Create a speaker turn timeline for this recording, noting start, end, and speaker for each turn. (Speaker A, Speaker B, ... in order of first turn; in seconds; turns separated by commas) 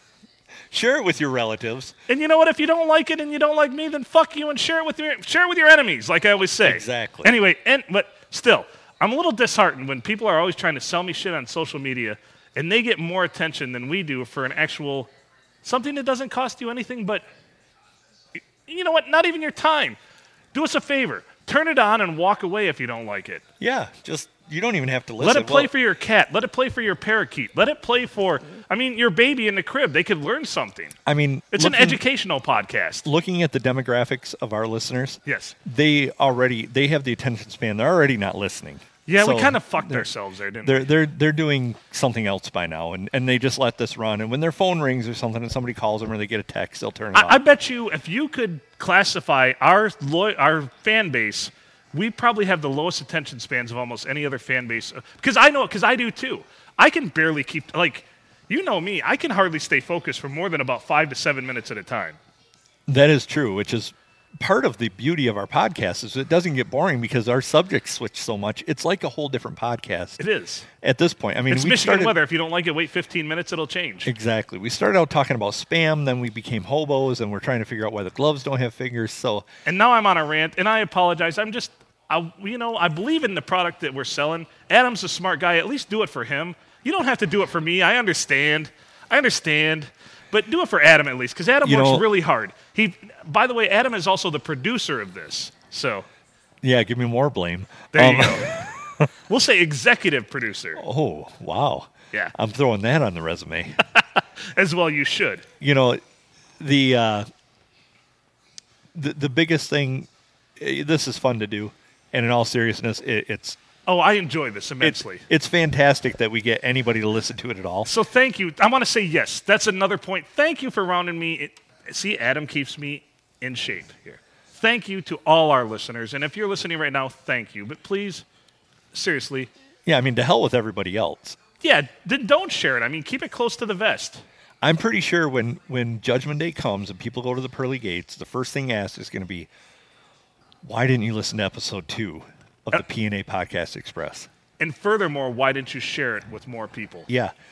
Speaker A: 0.7-1.9, Speaker B: 2.1-15.1, Speaker A: 6.7-7.3, Speaker B: 15.6-17.2, Speaker B: 18.6-20.0, Speaker B: 20.5-23.4, Speaker A: 23.6-25.7, Speaker B: 25.2-30.9, Speaker A: 31.1-32.0, Speaker B: 31.5-33.1, Speaker A: 33.0-40.1, Speaker B: 35.3-35.5, Speaker B: 39.1-40.9, Speaker A: 40.6-47.4, Speaker B: 47.1-62.2, Speaker A: 62.9-70.2, Speaker B: 70.2-70.7, Speaker A: 70.8-72.2, Speaker B: 71.5-74.1, Speaker A: 74.0-79.5, Speaker B: 79.7-96.1, Speaker A: 91.6-92.1, Speaker A: 96.6-99.1, Speaker B: 97.9-98.6, Speaker B: 99.3-100.8, Speaker A: 100.8-103.8, Speaker B: 103.9-105.5, Speaker A: 105.6-106.0, Speaker A: 106.6-107.3, Speaker A: 108.9-113.6, Speaker B: 113.9-115.2, Speaker A: 114.8-117.9, Speaker B: 117.8-128.2, Speaker B: 128.9-129.5, Speaker A: 129.9-131.4, Speaker B: 131.6-134.2, Speaker A: 134.6-139.5, Speaker A: 140.6-144.3, Speaker B: 144.6-147.1